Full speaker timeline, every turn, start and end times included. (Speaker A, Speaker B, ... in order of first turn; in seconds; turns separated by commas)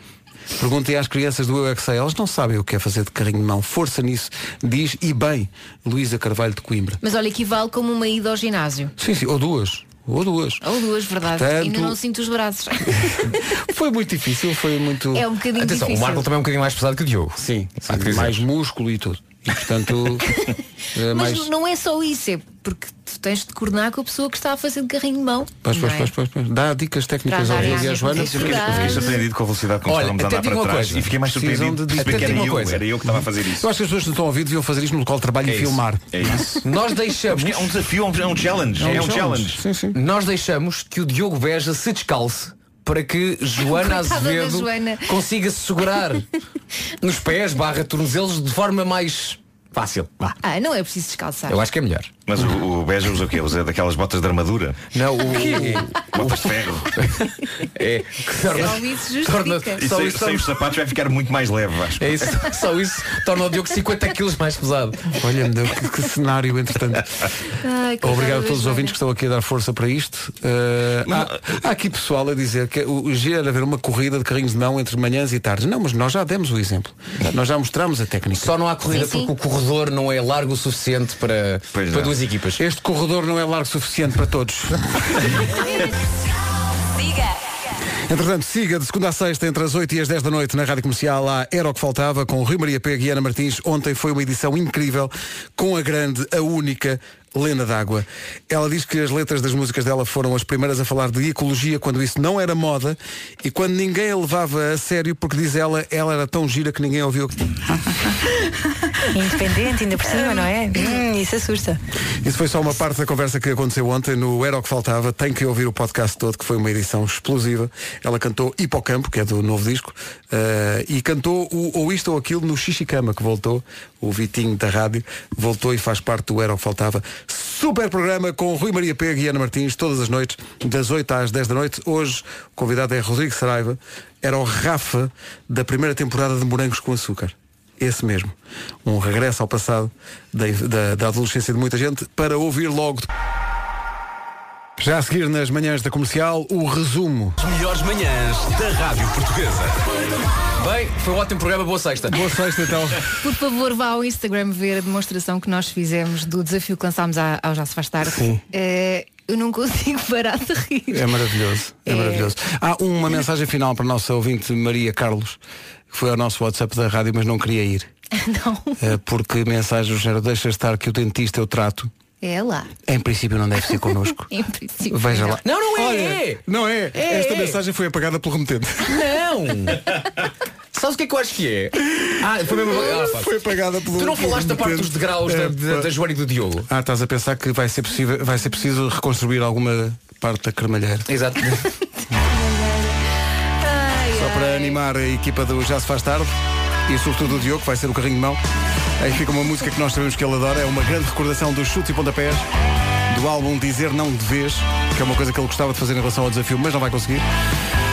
Speaker A: 0.6-7.0, Speaker B: 7.0-8.9, Speaker A: 9.0-10.6, Speaker B: 10.6-13.4, Speaker A: 11.2-12.0, Speaker A: 13.0-15.3, Speaker B: 15.1-16.3, Speaker C: 15.6-18.4, Speaker A: 17.4-20.3, Speaker B: 20.3-26.1, Speaker A: 20.9-21.5, Speaker A: 25.7-29.1, Speaker B: 27.3-29.3, Speaker C: 27.5-27.9, Speaker D: 28.3-33.7, Speaker C: 29.9-31.2, Speaker A: 31.3-36.5, Speaker C: 31.9-32.9, Speaker C: 35.4-35.8, Speaker D: 36.1-36.6, Speaker C: 36.6-37.7, Speaker D: 37.3-39.6, Speaker A: 38.8-40.0, Speaker C: 39.9-46.2, Speaker B: 43.7-45.2, Speaker C: 47.0-50.4, Speaker B: 50.4-51.6, Speaker C: 51.5-52.1, Speaker D: 52.3-54.8, Speaker C: 55.0-60.5, Speaker A: 55.5-55.8, Speaker D: 55.5-56.9, Speaker B: 58.5-59.9, Speaker D: 59.8-62.2, Speaker C: 62.0-65.1, Speaker A: 65.2-67.1, Speaker B: 67.6-69.0, Speaker A: 68.0-78.5, Speaker C: 78.4-82.6, Speaker B: 78.9-79.3, Speaker D: 81.7-82.2, Speaker A: 82.6-85.3, Speaker A: 88.1-107.5, Speaker E: 109.1-111.8, Speaker A: 112.2-143.1, Speaker A: 144.8-147.3, Speaker C: 147.4-149.8, Speaker C: 150.6-152.2, Speaker A: 152.1-153.1, Speaker B: 153.2-161.1, Speaker A: 158.0-158.4, Speaker A: 160.9-165.4, Speaker B: 161.9-162.3, Speaker A: 165.9-167.9, Speaker B: 168.2-168.8, Speaker A: 168.8-171.9, Speaker B: 172.2-172.7, Speaker A: 172.9-174.3, Speaker B: 174.3-175.4, Speaker A: 174.9-178.9, Speaker C: 175.4-176.4, Speaker C: 177.0-177.6, Speaker C: 178.8-180.0, Speaker C: 180.7-183.4, Speaker A: 182.7-185.9, Speaker C: 183.9-186.7, Speaker A: 186.7-191.1, Speaker C: 191.1-191.6, Speaker B: 192.2-192.9, Speaker B: 193.6-194.8, Speaker A: 194.1-196.3, Speaker A: 196.9-198.4, Speaker A: 199.0-202.5, Speaker A: 203.1-207.2